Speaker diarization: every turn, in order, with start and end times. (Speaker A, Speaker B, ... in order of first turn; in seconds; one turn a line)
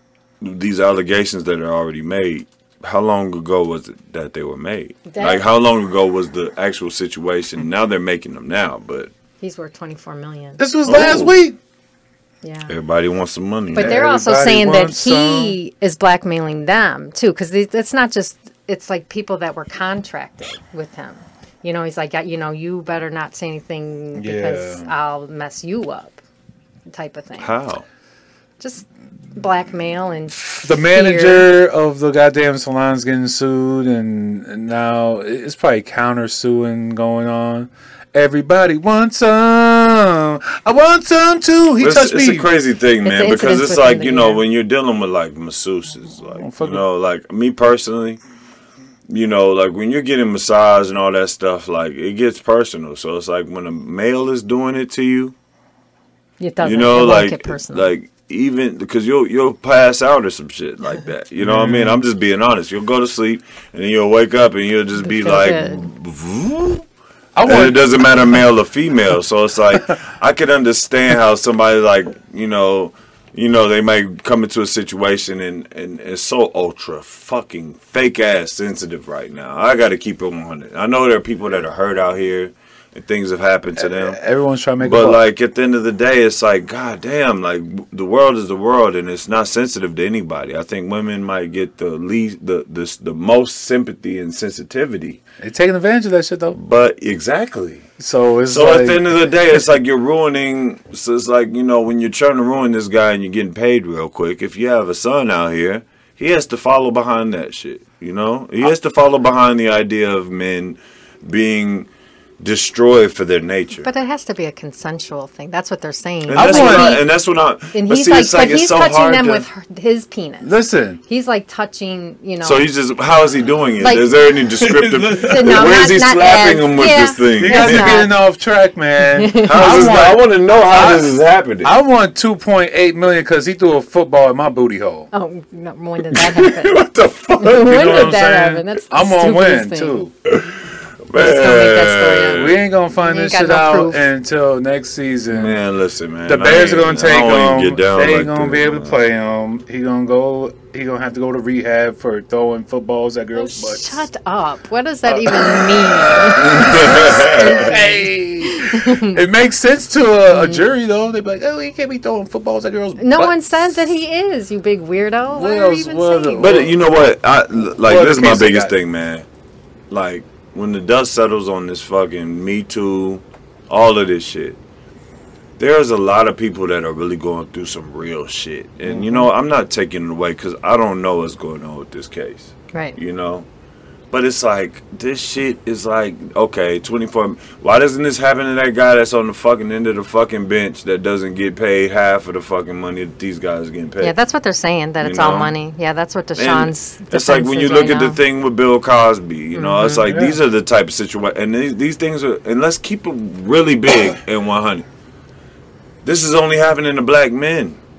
Speaker A: 0.4-9.1
Speaker B: 5.1-5.5
Speaker B: 9.4-10.6
Speaker C: 10.6-11.6
Speaker A: 10.9-11.4
Speaker B: 12.4-12.8
Speaker A: 12.7-14.0
Speaker B: 13.7-26.2
Speaker C: 13.8-15.6
Speaker C: 24.1-24.9
Speaker B: 26.9-27.6
Speaker A: 27.4-27.9
Speaker B: 28.6-31.5
Speaker C: 30.6-42.5
Speaker A: 41.8-48.2
Speaker B: 43.0-44.4
Speaker C: 46.4-46.9
Speaker A: 49.1-55.3
Speaker B: 56.4-57.9
Speaker A: 56.6-66.8
Speaker C: 61.4-62.0
Speaker B: 65.0-65.9
Speaker C: 67.4-67.8
Speaker A: 67.5-84.2
Speaker C: 83.8-85.2
Speaker A: 84.8-95.2
Speaker C: 95.4-96.6
Speaker A: 96.5-97.9
Speaker C: 98.0-99.3
Speaker A: 98.5-111.9
Speaker A: 112.4-113.9
Speaker B: 113.8-117.0
Speaker A: 116.3-119.5
Speaker C: 116.3-117.0
Speaker B: 117.7-122.7
Speaker C: 120.4-121.0
Speaker A: 122.4-128.1
Speaker B: 123.8-124.1
Speaker C: 124.4-125.8
Speaker B: 125.1-128.2
Speaker C: 127.4-135.1
Speaker B: 129.0-129.8
Speaker A: 129.4-131.8
Speaker B: 135.1-136.8
Speaker A: 136.0-138.2
Speaker B: 137.4-140.0
Speaker C: 137.5-140.1
Speaker A: 140.2-142.6
Speaker B: 141.1-144.1
Speaker C: 142.4-145.6
Speaker A: 145.3-149.0
Speaker C: 146.3-154.1
Speaker B: 153.3-159.2
Speaker C: 155.1-156.2
Speaker A: 156.4-157.8
Speaker C: 157.5-163.4
Speaker B: 160.3-160.7
Speaker B: 163.0-166.7
Speaker C: 165.3-166.7
Speaker A: 166.4-169.3
Speaker C: 167.8-168.8
Speaker A: 169.9-174.6
Speaker A: 175.6-183.5
Speaker C: 178.9-179.3
Speaker B: 182.7-183.0
Speaker A: 184.1-194.1
Speaker B: 194.0-198.2
Speaker A: 195.0-195.5
Speaker A: 196.4-204.9
Speaker B: 199.6-200.0
Speaker C: 199.8-200.4
Speaker A: 206.0-207.8